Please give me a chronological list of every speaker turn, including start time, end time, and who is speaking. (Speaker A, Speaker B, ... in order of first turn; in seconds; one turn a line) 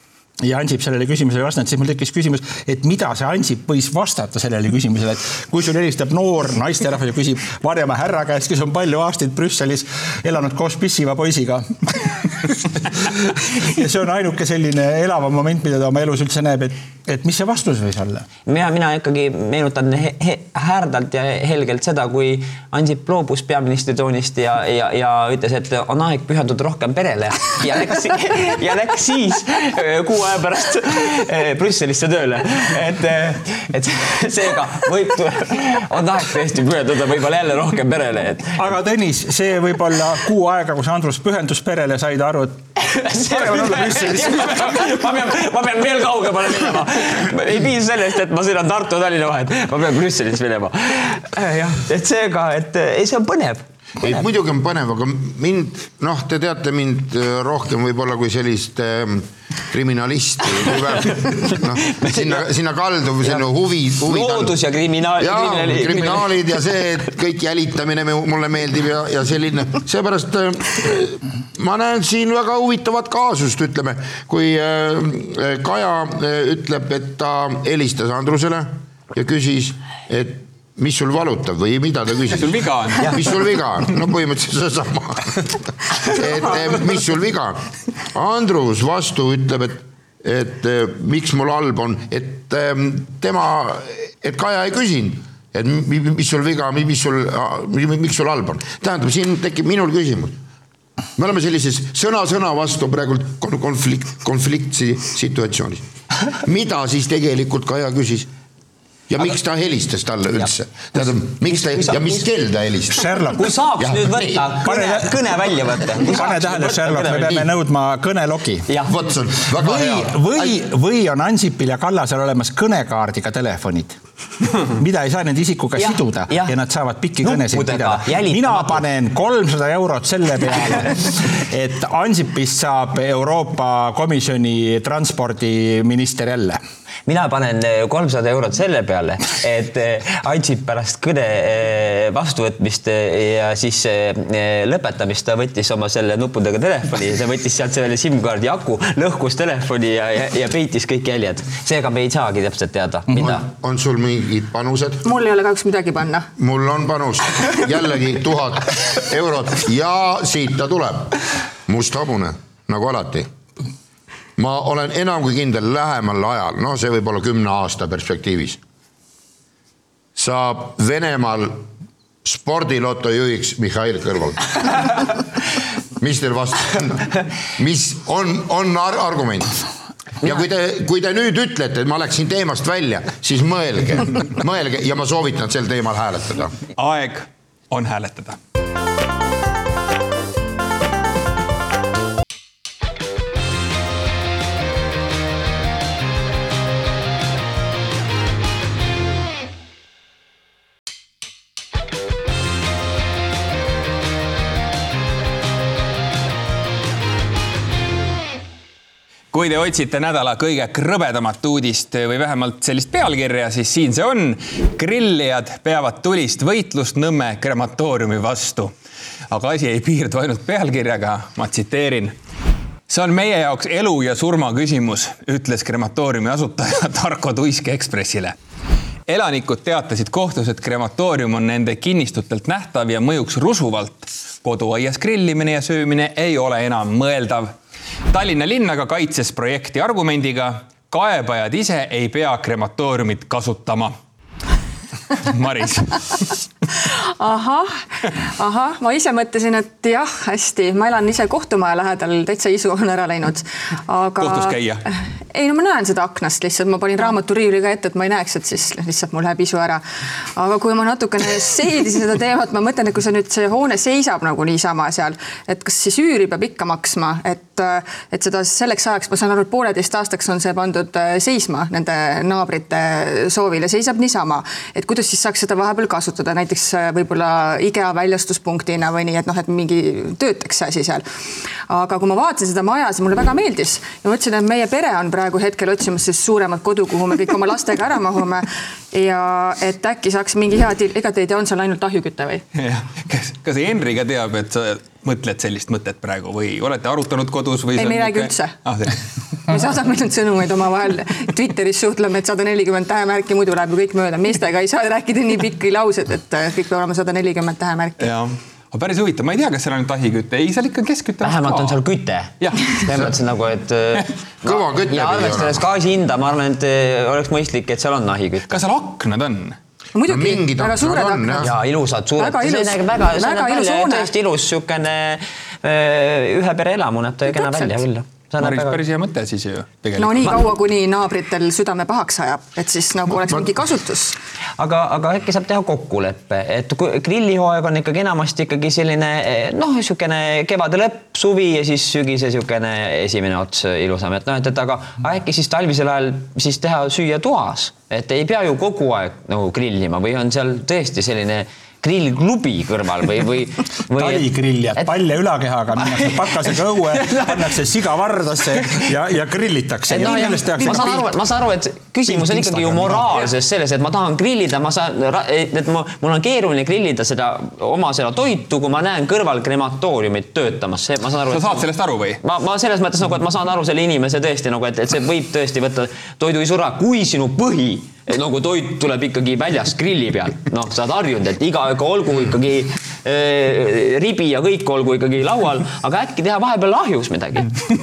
Speaker A: 0.4-18.3
Speaker B: 18.5-38.6
Speaker A: 38.6-44.8
Speaker B: 42.8-53.7
Speaker C: 54.0-64.6
Speaker B: 61.0-62.5
Speaker B: 64.1-66.3
Speaker C: 65.2-100.4
Speaker D: 82.3-83.4
Speaker C: 101.2-108.3
Speaker C: 109.1-113.1
Speaker B: 111.5-112.2
Speaker A: 112.9-113.5
Speaker B: 113.4-117.5
Speaker C: 113.8-114.5
Speaker A: 114.6-115.3
Speaker A: 116.0-118.7
Speaker C: 118.9-120.6
Speaker A: 119.5-124.0
Speaker A: 124.6-136.6
Speaker B: 125.8-126.5
Speaker B: 127.2-128.8
Speaker B: 137.1-153.4
Speaker C: 153.2-155.0
Speaker E: 155.1-156.3
Speaker C: 156.4-163.3
Speaker C: 164.4-168.6
Speaker C: 170.2-171.7
Speaker C: 172.2-175.2
Speaker C: 176.0-179.6
Speaker C: 180.2-186.6
Speaker D: 186.8-188.4
Speaker D: 209.3-218.7
Speaker D: 219.3-222.2
Speaker D: 222.9-228.3
Speaker D: 229.1-237.5
Speaker D: 238.1-244.0
Speaker D: 245.2-246.3
Speaker E: 246.8-259.8
Speaker D: 254.2-254.8
Speaker E: 260.4-281.0
Speaker E: 281.7-292.4
Speaker D: 292.6-299.0
Speaker E: 297.8-298.6
Speaker E: 299.5-308.0
Speaker D: 308.0-311.8
Speaker B: 311.2-318.5
Speaker D: 312.4-312.8
Speaker C: 314.4-315.6
Speaker D: 318.5-319.6
Speaker E: 319.9-321.5
Speaker C: 320.1-321.5
Speaker B: 321.4-328.8
Speaker E: 322.2-324.1
Speaker E: 327.3-327.8
Speaker D: 328.4-330.4
Speaker E: 330.0-334.2
Speaker B: 334.6-355.0
Speaker A: 353.9-361.1
Speaker B: 355.8-357.6
Speaker B: 358.6-358.9
Speaker B: 359.9-371.7
Speaker A: 362.1-363.2
Speaker D: 371.3-372.2
Speaker B: 372.2-387.6